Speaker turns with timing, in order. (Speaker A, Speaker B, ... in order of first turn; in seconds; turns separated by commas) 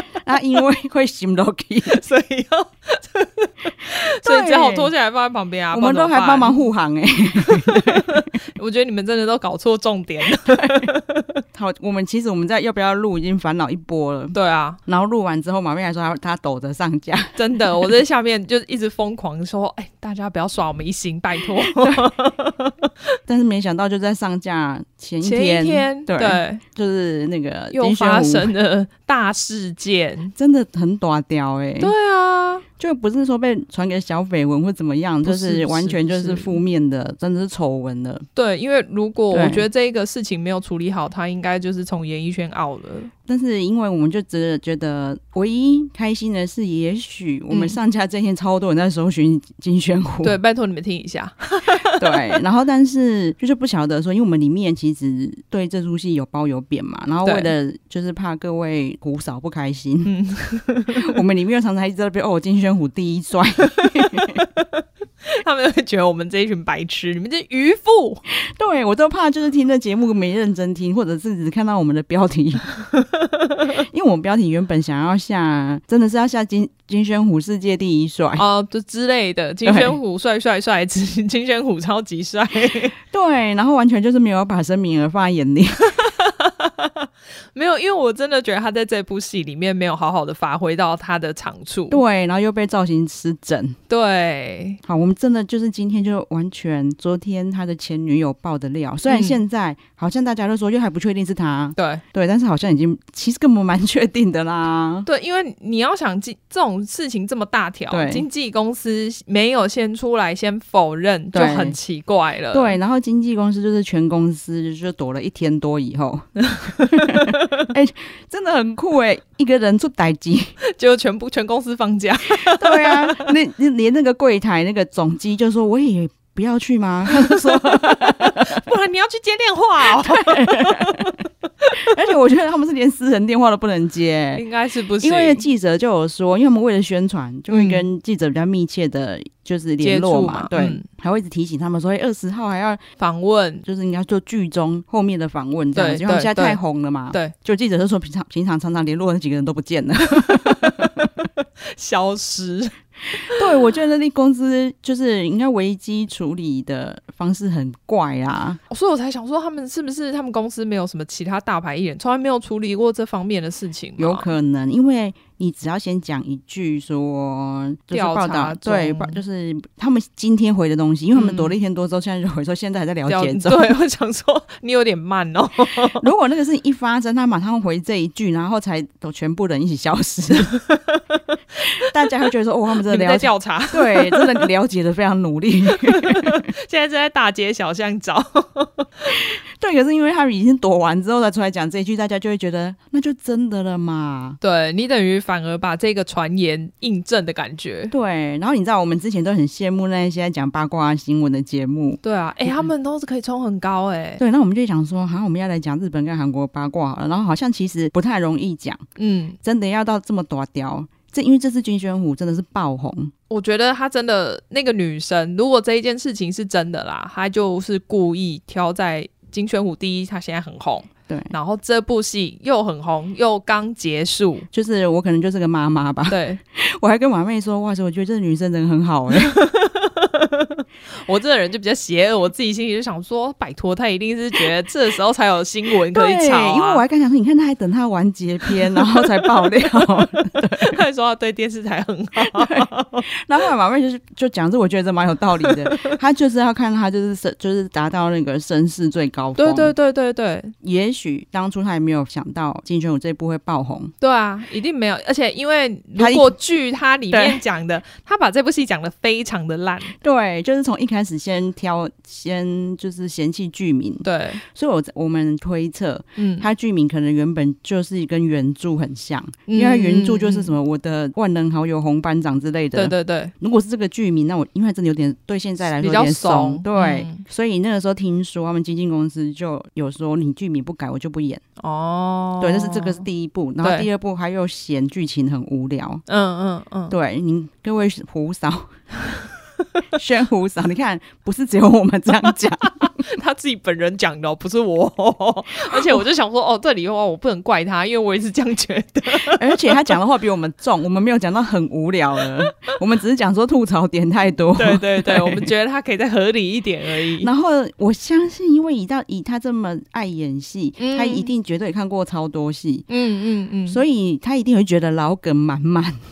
Speaker A: 0.2-2.0, Speaker B: 1.9-6.6, Speaker A: 4.2-4.9, Speaker A: 5.7-8.2, Speaker B: 7.4-11.4, Speaker A: 10.5-10.8, Speaker A: 11.5-17.9, Speaker B: 14.3-14.8, Speaker B: 17.4-22.9, Speaker A: 23.3-28.5, Speaker B: 25.2-26.6, Speaker B: 27.7-30.3, Speaker A: 30.4-31.9, Speaker B: 31.8-32.6, Speaker A: 32.8-38.2, Speaker B: 35.2-36.6, Speaker B: 38.4-43.1, Speaker A: 39.3-39.7, Speaker A: 43.3-50.4, Speaker B: 47.5-47.8, Speaker B: 50.2-52.3, Speaker A: 51.9-60.1, Speaker B: 57.2-57.5, Speaker B: 60.0-61.2, Speaker A: 61.0-64.4, Speaker B: 63.8-68.2, Speaker A: 68.4-72.7, Speaker A: 73.8-78.5, Speaker B: 78.4-83.0, Speaker A: 79.7-80.0, Speaker A: 83.1-85.9, Speaker B: 86.0-92.0, Speaker A: 91.9-93.8, Speaker B: 93.9-94.8, Speaker A: 94.8-105.1, Speaker B: 99.1-99.4, Speaker B: 101.8-102.0, Speaker B: 105.1-112.8, Speaker A: 107.9-108.3, Speaker A: 111.3-111.8, Speaker A: 112.5-120.5, Speaker B: 116.4-117.7, Speaker B: 120.6-123.3, Speaker A: 122.3-128.6, Speaker B: 127.1-131.9, Speaker A: 129.9-131.2, Speaker A: 131.8-134.4, Speaker B: 134.4-135.4, Speaker A: 135.0-142.8, Speaker B: 137.5-137.8, Speaker B: 139.8-140.8, Speaker B: 143.0-143.6, Speaker A: 143.6-151.1, Speaker B: 145.8-146.6, Speaker B: 150.2-153.4, Speaker A: 153.3-158.6, Speaker B: 158.7-164.3, Speaker A: 164.0-173.8, Speaker B: 167.9-169.2, Speaker B: 171.2-171.5, Speaker B: 173.1-176.1, Speaker A: 176.0-180.6, Speaker B: 180.7-182.2, Speaker A: 181.8-186.5, Speaker B: 182.8-184.5, Speaker B: 185.7-189.2, Speaker A: 189.6-194.4, Speaker B: 194.4-197.9, Speaker A: 197.9-202.6, Speaker B: 202.0-204.2, Speaker A: 204.2-208.8, Speaker B: 209.0-209.4, Speaker A: 209.4-213.1, Speaker B: 213.3-224.5, Speaker A: 224.5-229.4, Speaker B: 226.1-226.4, Speaker B: 229.1-236.8, Speaker A: 235.9-240.8, Speaker B: 238.8-243.1, Speaker A: 242.2-249.7, Speaker B: 245.4-246.0, Speaker B: 249.4-250.5, Speaker A: 250.6-253.9, Speaker B: 254.0-259.9, Speaker A: 256.0-256.3, Speaker A: 257.1-257.4, Speaker A: 260.0-281.4, Speaker B: 264.0-264.4, Speaker B: 266.2-266.5, Speaker B: 269.5-270.5, Speaker B: 272.7-273.3, Speaker B: 275.8-277.2, Speaker B: 281.6-283.0, Speaker A: 282.4-286.0, Speaker B: 286.1-286.9, Speaker A: 286.9-288.8, Speaker A: 289.9-292.9, Speaker B: 292.7-299.8, Speaker A: 295.7-296.0, Speaker A: 299.2-305.5, Speaker B: 304.6-307.3, Speaker A: 307.2-312.9, Speaker B: 310.8-311.3, Speaker B: 312.9-313.8, Speaker A: 313.7-316.0